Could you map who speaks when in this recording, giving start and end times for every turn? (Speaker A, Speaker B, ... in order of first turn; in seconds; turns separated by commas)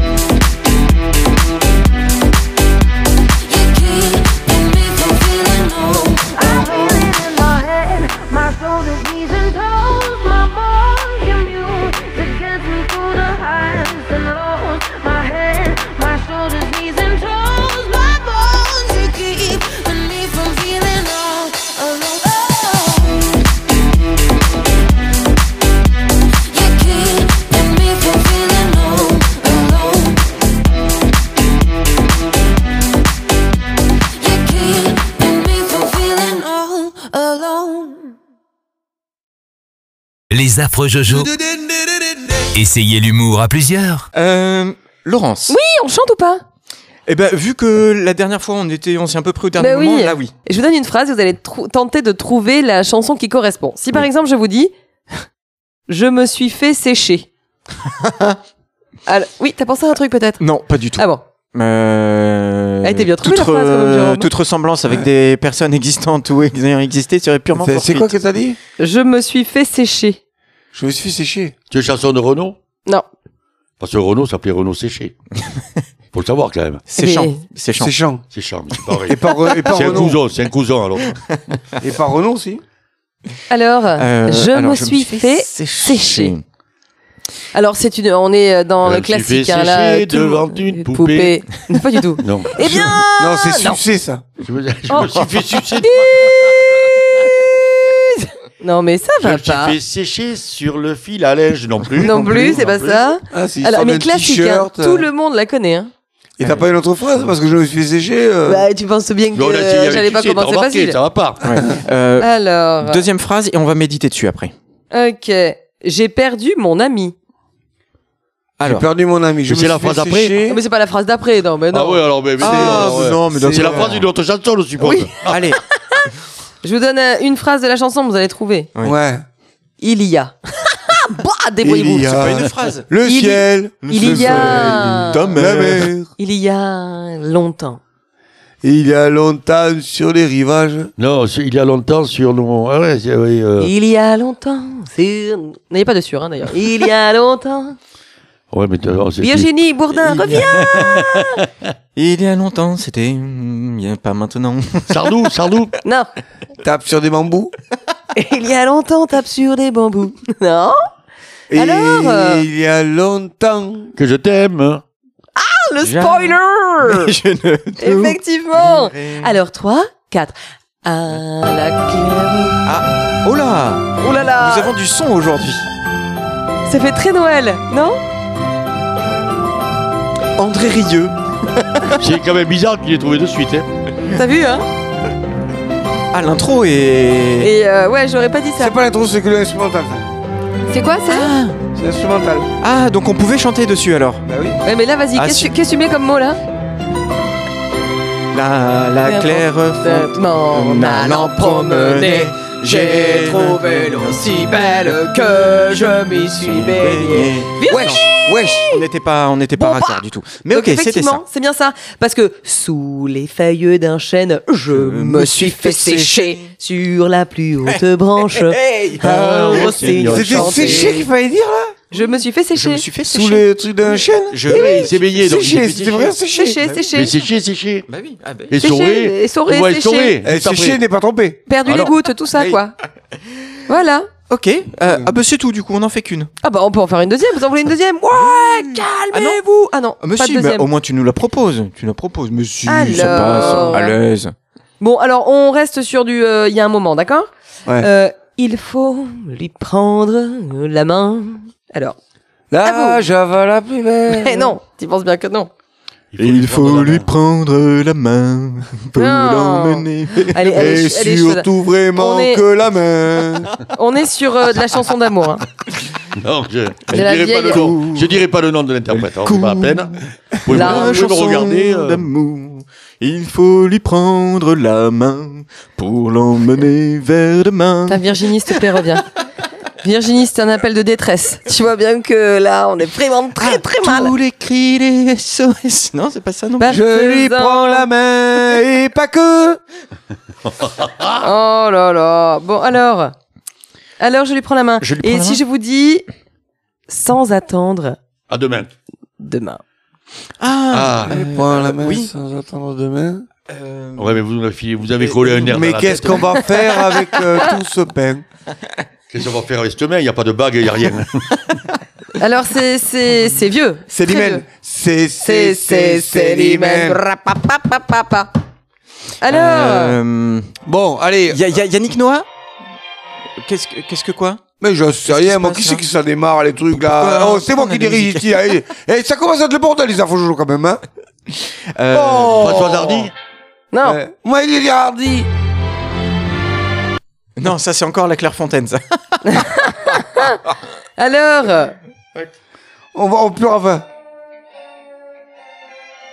Speaker A: 3.4-23.3, Speaker A: 26.4-30.3, Speaker A: 34.1-38.1, Speaker B: 40.3-41.4, Speaker B: 42.5-44.1, Speaker C: 44.1-45.5, Speaker D: 45.5-46.4, Speaker C: 47.1-50.3, Speaker D: 49.6-54.7, Speaker D: 55.9-57.3, Speaker C: 58.0-58.4, Speaker D: 59.1-60.4, Speaker C: 60.4-68.1, Speaker D: 61.0-61.2, Speaker D: 62.8-64.3, Speaker E: 67.5-68.6, Speaker D: 68.8-70.2, Speaker E: 70.7-71.5, Speaker F: 71.7-72.6, Speaker F: 73.8-75.1, Speaker F: 76.1-76.8, Speaker C: 76.9-77.9, Speaker D: 77.0-77.4, Speaker E: 77.8-78.2, Speaker F: 78.3-81.5, Speaker E: 79.1-80.2, Speaker E: 81.8-82.6, Speaker D: 83.5-86.3, Speaker C: 84.0-86.4, Speaker D: 87.5-93.8, Speaker F: 88.8-91.4, Speaker F: 92.2-92.6, Speaker E: 93.2-94.2, Speaker F: 94.4-96.7, Speaker D: 94.9-96.5, Speaker D: 97.8-99.8, Speaker F: 99.2-103.1, Speaker D: 102.0-105.9, Speaker E: 103.3-105.1, Speaker E: 106.4-108.7, Speaker D: 108.5-111.0, Speaker F: 109.3-111.5, Speaker C: 111.4-112.3, Speaker D: 112.2-113.0, Speaker C: 112.8-114.5, Speaker D: 114.9-117.1, Speaker C: 118.6-118.8, Speaker E: 118.6-120.6, Speaker F: 119.5-120.4, Speaker D: 120.5-122.0, Speaker F: 121.7-125.4, Speaker C: 122.4-124.1, Speaker E: 122.4-124.0, Speaker C: 125.2-125.6, Speaker D: 126.6-128.7, Speaker E: 128.8-129.2, Speaker D: 129.8-132.3, Speaker E: 131.6-136.1, Speaker C: 131.9-132.9, Speaker D: 133.0-135.2, Speaker C: 133.8-135.9, Speaker D: 136.2-137.8, Speaker E: 138.6-140.9, Speaker F: 141.0-143.7, Speaker D: 143.6-147.8, Speaker F: 148.5-149.5, Speaker D: 149.2-151.4, Speaker C: 150.1-150.8, Speaker F: 150.4-151.1, Speaker C: 151.9-155.1, Speaker F: 154.9-155.7, Speaker D: 155.8-156.1, Speaker E: 156.6-157.5, Speaker D: 158.1-160.8, Speaker E: 161.5-163.9, Speaker D: 161.6-162.4, Speaker F: 163.9-164.8, Speaker D: 165.3-167.1, Speaker C: 165.8-169.3, Speaker D: 167.8-172.6, Speaker C: 172.7-175.7, Speaker D: 174.0-174.7, Speaker D: 176.7-178.0, Speaker C: 180.3-182.0, Speaker F: 182.0-183.7, Speaker D: 184.1-184.7, Speaker C: 186.1-187.5, Speaker D: 187.4-188.7, Speaker E: 188.6-190.1, Speaker D: 190.7-191.3, Speaker C: 191.1-191.6, Speaker E: 191.7-192.5, Speaker C: 192.6-194.2, Speaker E: 194.2-194.6, Speaker D: 194.6-196.4, Speaker C: 195.1-195.5, Speaker C: 198.3-208.0, Speaker D: 199.0-208.8, Speaker E: 207.7-208.7, Speaker C: 208.7-211.2, Speaker D: 209.6-221.1, Speaker C: 214.7-216.5, Speaker C: 218.3-220.0, Speaker F: 219.0-220.9, Speaker E: 220.1-221.8, Speaker D: 221.9-222.9, Speaker C: 221.9-225.6, Speaker E: 223.0-226.9, Speaker F: 224.5-226.1, Speaker D: 226.3-227.1, Speaker F: 226.9-227.9, Speaker C: 227.9-228.5, Speaker F: 228.5-230.8, Speaker D: 228.6-230.1, Speaker E: 230.2-231.4, Speaker D: 231.5-232.7, Speaker F: 231.7-231.9, Speaker D: 233.7-234.1, Speaker C: 234.3-236.3, Speaker E: 234.8-235.1, Speaker D: 236.4-240.7, Speaker C: 239.1-244.3, Speaker D: 242.7-244.0, Speaker E: 243.0-243.5, Speaker D: 244.8-252.0, Speaker E: 252.5-254.6, Speaker D: 252.6-253.0, Speaker D: 254.1-255.5, Speaker F: 256.1-257.1, Speaker C: 256.2-260.9, Speaker D: 258.9-262.4, Speaker E: 260.4-263.5, Speaker D: 263.7-265.4, Speaker F: 266.1-272.1, Speaker D: 266.9-267.7, Speaker C: 267.5-268.1, Speaker C: 268.9-269.9, Speaker C: 270.5-278.8, Speaker D: 270.5-270.9, Speaker D: 277.9-279.1, Speaker D: 279.8-284.1, Speaker C: 283.4-286.8, Speaker D: 286.6-287.9, Speaker E: 286.7-289.6, Speaker F: 290.4-291.2, Speaker D: 291.2-293.1, Speaker D: 294.0-296.1, Speaker C: 294.8-295.4, Speaker D: 296.9-298.0, Speaker F: 298.3-298.7, Speaker D: 299.2-299.6, Speaker C: 300.4-302.1, Speaker F: 300.7-301.2, Speaker E: 301.1-303.3, Speaker C: 303.5-304.2, Speaker F: 304.0-306.5, Speaker C: 305.0-305.4, Speaker E: 305.4-308.2, Speaker F: 309.1-311.6, Speaker D: 312.2-314.4, Speaker E: 313.9-317.0, Speaker D: 315.2-318.3, Speaker D: 319.2-320.0, Speaker C: 319.2-320.5, Speaker E: 320.6-321.4, Speaker C: 321.3-322.2, Speaker C: 323.4-324.4, Speaker E: 324.6-330.8, Speaker C: 325.1-325.8, Speaker C: 326.7-328.3, Speaker C: 331.7-332.7, Speaker E: 331.9-333.1, Speaker F: 332.3-333.1, Speaker D: 333.7-334.0, Speaker E: 333.8-335.3, Speaker C: 337.4-339.4, Speaker D: 339.3-340.4, Speaker D: 341.0-341.7, Speaker E: 342.9-343.9